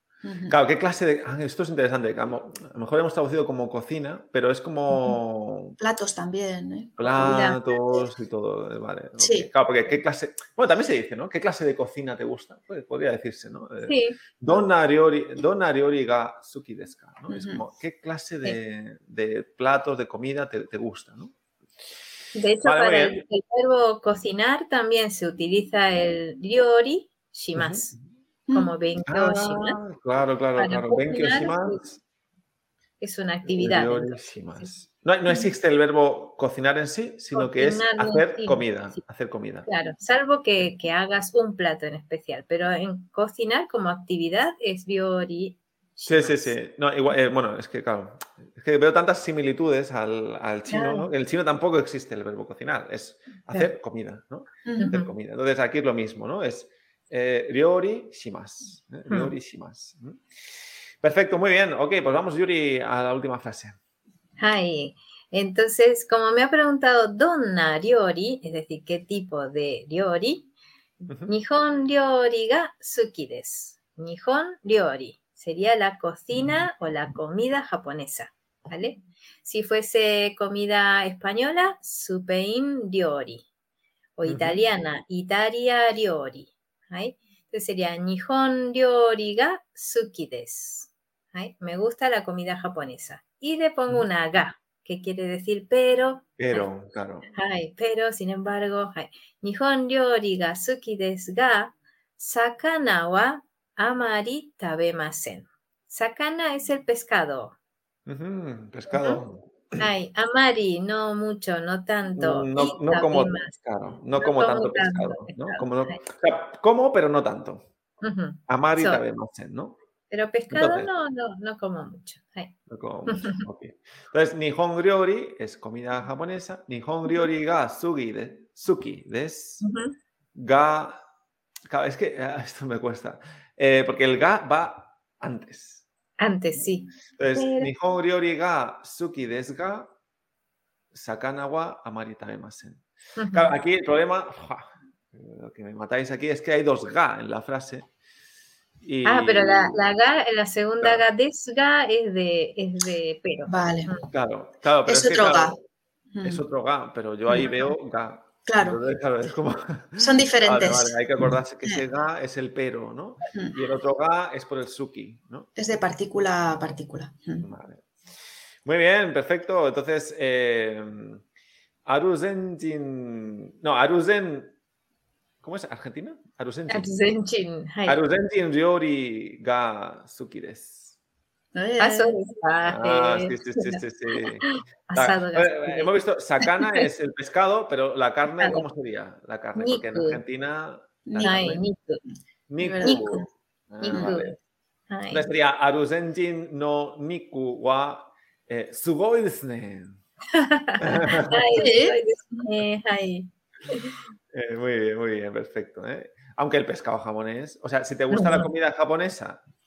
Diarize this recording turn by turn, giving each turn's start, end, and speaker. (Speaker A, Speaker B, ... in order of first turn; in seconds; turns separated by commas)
Speaker A: 0.2-0.6, Speaker B: 0.5-5.7, Speaker A: 5.8-8.1, Speaker B: 7.0-21.3, Speaker C: 7.2-7.7, Speaker A: 9.2-9.5, Speaker C: 13.8-14.2, Speaker A: 17.3-17.6, Speaker C: 22.3-27.9, Speaker B: 22.6-23.2, Speaker B: 27.5-28.0, Speaker C: 28.5-29.8, Speaker B: 29.1-32.0, Speaker C: 30.6-31.8, Speaker C: 33.0-34.7, Speaker B: 33.5-39.7, Speaker C: 37.3-39.0, Speaker C: 39.6-46.5, Speaker B: 46.0-60.2, Speaker C: 50.7-51.1, Speaker A: 54.6-54.9, Speaker C: 54.8-55.1, Speaker B: 61.0-63.8, Speaker C: 64.4-70.5, Speaker B: 71.1-71.3, Speaker C: 71.2-83.5, Speaker C: 84.2-96.7, Speaker B: 84.2-84.6, Speaker B: 96.4-97.3, Speaker C: 97.3-107.5, Speaker B: 108.0-109.9, Speaker C: 108.9-109.2, Speaker C: 109.8-113.5, Speaker B: 112.2-117.7, Speaker C: 114.1-116.0, Speaker C: 118.0-119.0, Speaker B: 118.5-119.8, Speaker C: 120.1-122.5, Speaker B: 120.5-120.9, Speaker B: 122.7-129.6, Speaker C: 123.0-123.4, Speaker C: 129.6-129.9, Speaker B: 130.3-131.0, Speaker B: 131.7-135.8, Speaker C: 136.2-137.7, Speaker B: 137.2-139.9, Speaker B: 140.9-147.9, Speaker C: 143.2-143.6, Speaker B: 148.8-149.8, Speaker C: 149.0-154.0, Speaker A: 153.5-153.9, Speaker B: 154.1-155.6, Speaker A: 154.8-155.6, Speaker A: 156.1-156.4, Speaker B: 156.2-165.5, Speaker A: 157.3-157.7, Speaker A: 158.4-158.8, Speaker A: 160.0-161.0, Speaker A: 165.6-167.5, Speaker B: 167.4-167.8, Speaker B: 168.6-171.2, Speaker B: 171.8-174.5, Speaker B: 175.4-176.9, Speaker C: 176.7-178.0, Speaker B: 177.8-180.9, Speaker A: 181.5-182.2, Speaker C: 181.8-185.9, Speaker B: 182.7-191.6, Speaker C: 186.4-186.8, Speaker C: 189.6-190.2, Speaker A: 191.1-191.6, Speaker C: 191.2-192.0, Speaker B: 192.5-194.3, Speaker A: 192.6-193.3, Speaker C: 192.8-193.1, Speaker C: 193.8-194.3, Speaker A: 193.8-194.1, Speaker C: 194.9-195.2, Speaker B: 195.1-200.0, Speaker C: 200.3-203.9, Speaker B: 200.8-201.4, Speaker A: 201.5-202.5, Speaker B: 204.3-209.4, Speaker C: 208.1-208.5